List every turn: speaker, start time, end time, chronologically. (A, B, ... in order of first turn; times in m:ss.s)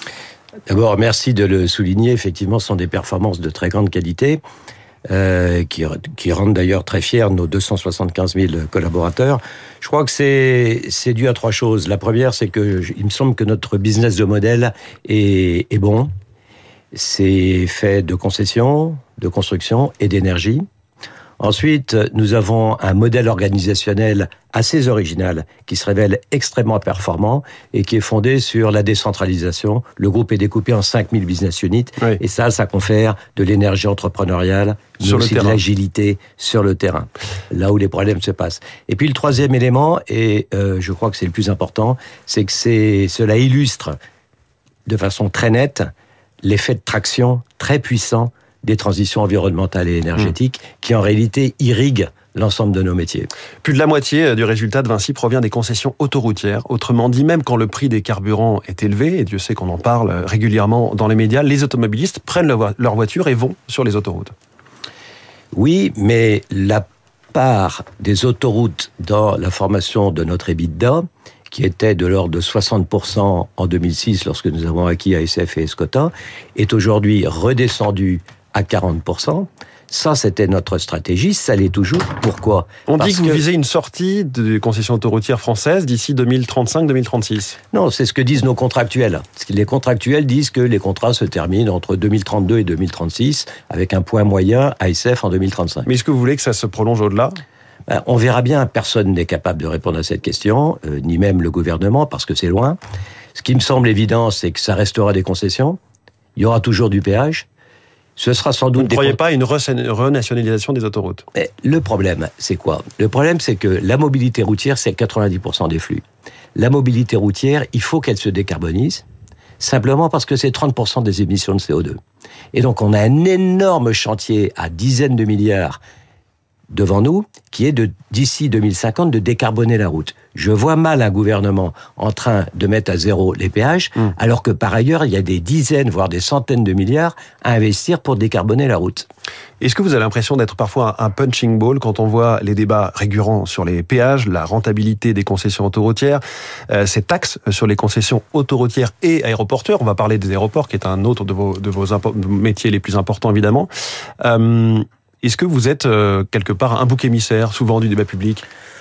0:00.7-0:04.4 A
0:05.1-0:16.1 A
0:16.9-0:20.6 A
0:21.4-0:44.0 A
0:35.0-0:35.6 B
0:44.8-0:45.9 A
0:46.4-0:53.3 A
0:53.6-1:04.3 B
1:05.5-1:23.4 A
1:22.9-1:27.6 B
1:27.7-1:35.9 A
1:35.8-1:37.4 B
1:37.9-1:42.8 A
1:43.3-1:45.8 A
1:46.4-1:47.4 A
1:48.2-1:49.2 A
1:48.8-1:51.2 B
1:51.3-1:56.0 A
1:56.6-1:59.0 A
1:59.6-2:02.0 A
2:02.5-2:05.8 A
2:06.7-2:19.1 A
2:19.6-2:33.7 B
2:34.2-2:38.4 B